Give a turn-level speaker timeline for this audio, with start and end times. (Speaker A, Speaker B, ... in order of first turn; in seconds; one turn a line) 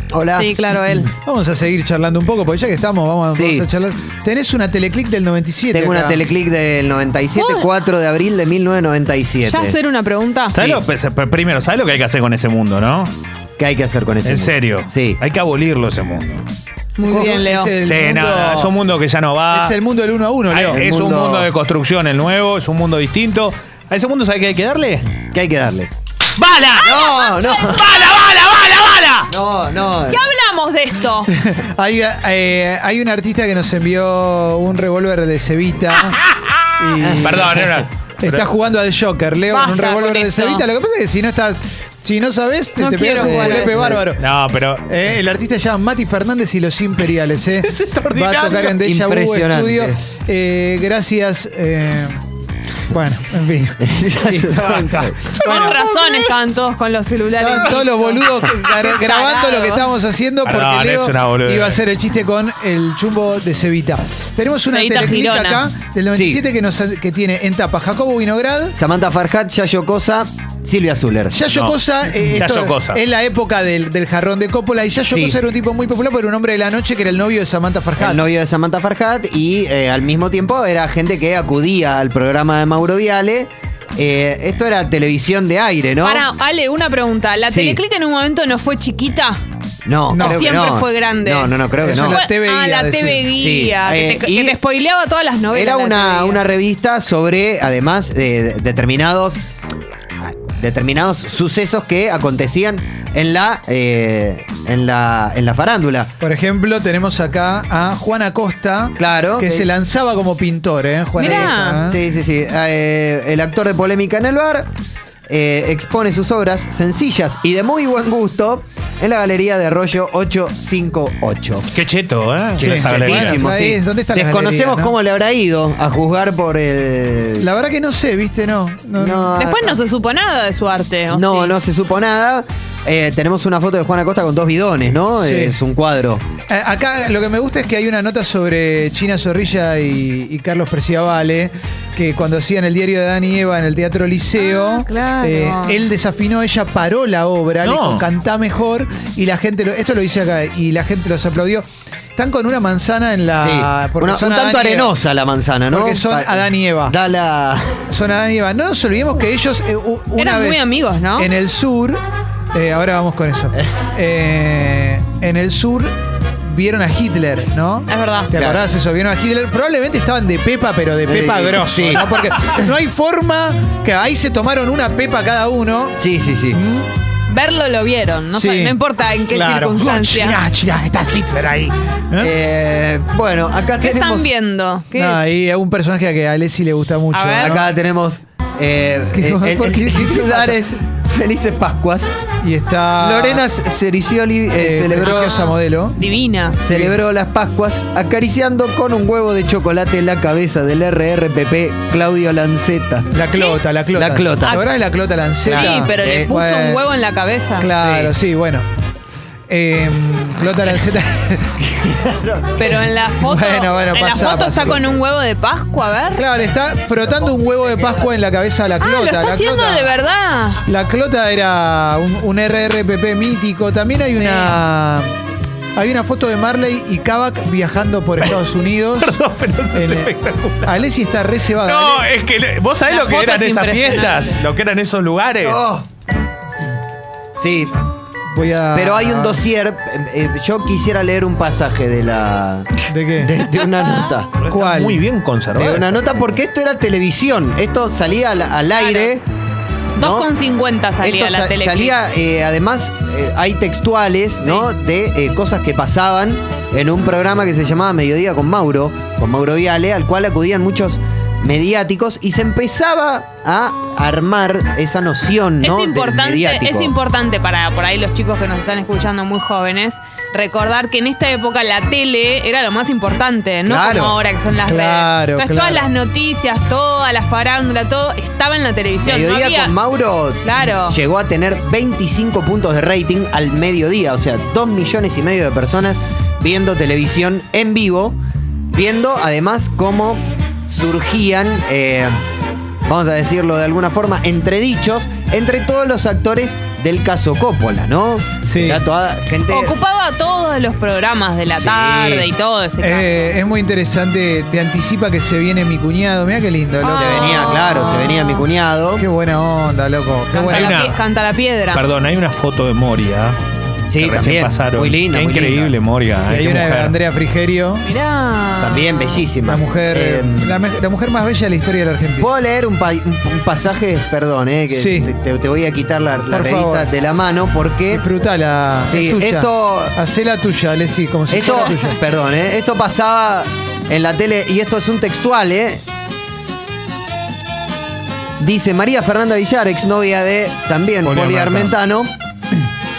Speaker A: 0.1-1.1
Speaker B: 0.3-1.1
Speaker C: 1.2-6.2
Speaker A: 3.3-3.7
Speaker A: 5.7-9.8
Speaker B: 7.3-7.7
Speaker B: 9.4-10.7
Speaker D: 10.5-13.1
Speaker A: 13.6-15.2
Speaker D: 14.2-16.5
Speaker B: 17.0-17.8
Speaker C: 17.0-18.7
Speaker D: 17.8-19.8
Speaker C: 19.5-20.8
Speaker D: 20.5-25.2
Speaker A: 20.7-21.5
Speaker A: 25.3-25.9
Speaker A: 26.4-28.4
Speaker B: 27.0-27.8
Speaker D: 27.9-29.2
Speaker A: 29.3-30.3
Speaker B: 30.1-31.3
Speaker C: 31.3-36.2
Speaker C: 36.8-44.2
Speaker A: 37.0-37.5
Speaker D: 37.0-38.5
Speaker B: 39.5-40.7
Speaker B: 42.8-43.9
Speaker A: 43.2-44.1
Speaker D: 44.2-44.9
Speaker C: 44.8-52.2
Speaker D: 47.6-48.8
Speaker A: 48.6-50.0
Speaker C: 52.9-55.9
Speaker A: 53.8-55.2
Speaker D: 55.1-55.7
Speaker B: 55.4-59.9
Speaker C: 57.3-68.8
Speaker D: 60.5-61.8
Speaker B: 64.7-65.7
Speaker A: 66.1-66.4
Speaker A: 68.8-71.4
Speaker C: 71.3-78.2
Speaker D: 71.5-73.0
Speaker A: 75.1-75.4
Speaker A: 78.0-86.3
Speaker B: 86.0-89.4
Speaker A: 87.5-87.8
Speaker A: 89.9-92.2
Speaker C: 90.1-90.5
Speaker B: 90.2-96.4
Speaker C: 91.8-93.3
Speaker A: 93.3-94.6
Speaker A: 95.5-99.4
Speaker A: 100.2-106.1
Speaker C: 106.2-112.0
Speaker A: 109.0-109.7
Speaker B: 111.2-111.8
Speaker A: 111.2-114.7
Speaker A: 115.3-121.7
Speaker D: 121.7-123.4
Speaker A: 122.6-127.5
Speaker C: 122.6-124.9
Speaker C: 127.4-129.3
Speaker A: 129.0-129.8
Speaker B: 129.4-131.5
Speaker A: 131.1-136.2
Speaker C: 135.2-135.6
Speaker C: 136.5-151.7
Speaker B: 144.4-145.9
Speaker D: 147.6-148.1
Speaker C: 152.2-154.9
Speaker A: 153.4-157.9
Speaker C: 155.7-157.0
Speaker C: 157.9-162.0
Speaker B: 160.2-161.3
Speaker C: 162.5-176.9
Speaker B: 167.9-168.3
Speaker A: 168.3-168.7
Speaker A: 171.1-172.7
Speaker A: 176.0-176.6
Speaker B: 177.3-180.4
Speaker C: 178.3-178.8
Speaker C: 179.3-182.3
Speaker A: 182.2-184.3
Speaker B: 183.8-185.2
Speaker C: 184.9-187.8
Speaker B: 187.1-187.6
Speaker A: 187.4-192.1
Speaker C: 189.1-190.6
Speaker C: 192.4-193.4
Speaker A: 193.0-195.5
Speaker C: 194.6-196.0
Speaker B: 195.1-196.6
Speaker C: 196.6-197.0
Speaker A: 196.6-203.1
Speaker C: 203.1-206.8
Speaker B: 203.3-203.6
Speaker A: 203.9-204.6
Speaker B: 204.4-204.7
Speaker A: 205.4-206.3
Speaker B: 205.4-207.7
Speaker C: 207.6-208.7
Speaker A: 207.8-208.1
Speaker C: 209.5-211.6
Speaker A: 211.8-212.5
Speaker B: 212.6-216.2
Speaker C: 212.6-215.0
Speaker C: 216.2-219.9
Speaker B: 218.8-220.6
Speaker C: 220.6-225.1
Speaker B: 224.2-224.6
Speaker C: 225.8-229.2
Speaker D: 229.0-230.8
Speaker C: 229.7-230.1
Speaker C: 230.6-232.1
Speaker D: 231.6-235.6
Speaker B: 232.9-234.4
Speaker A: 235.4-235.8
Speaker A: 237.4-237.7
Speaker C: 238.3-239.4
Speaker A: 238.7-244.3
Speaker C: 242.9-243.4
Speaker D: 244.4-246.0
Speaker C: 244.5-245.0
Speaker A: 245.5-249.2
Speaker B: 248.7-249.1
Speaker B: 249.9-251.9
Speaker A: 250.0-250.3
Speaker A: 251.0-266.9
Speaker B: 265.6-279.7
Speaker A: 273.6-274.2
Speaker C: 274.6-275.9
Speaker A: 279.0-288.2
Speaker B: 280.4-281.0
Speaker A: 288.7-292.2
Speaker A: 292.9-299.8
Speaker C: 298.4-298.9
Speaker B: 299.5-303.4
Speaker A: 301.5-302.3
Speaker C: 302.8-308.1
Speaker B: 306.8-308.4
Speaker A: 306.9-309.0
Speaker C: 309.0-310.8
Speaker B: 310.3-311.8
Speaker D: 310.4-311.0
Speaker D: 311.7-313.4
Speaker A: 313.9-315.8
Speaker D: 314.0-317.0
Speaker C: 316.3-317.9
Speaker B: 317.9-319.2
Speaker A: 318.6-320.6
Speaker C: 319.4-322.3
Speaker A: 322.2-328.1
Speaker C: 324.7-325.1
Speaker C: 326.3-326.9
Speaker C: 327.9-332.0
Speaker A: 328.9-329.9
Speaker A: 331.3-335.8
Speaker A: 338.4-342.1
Speaker D: 341.1-341.7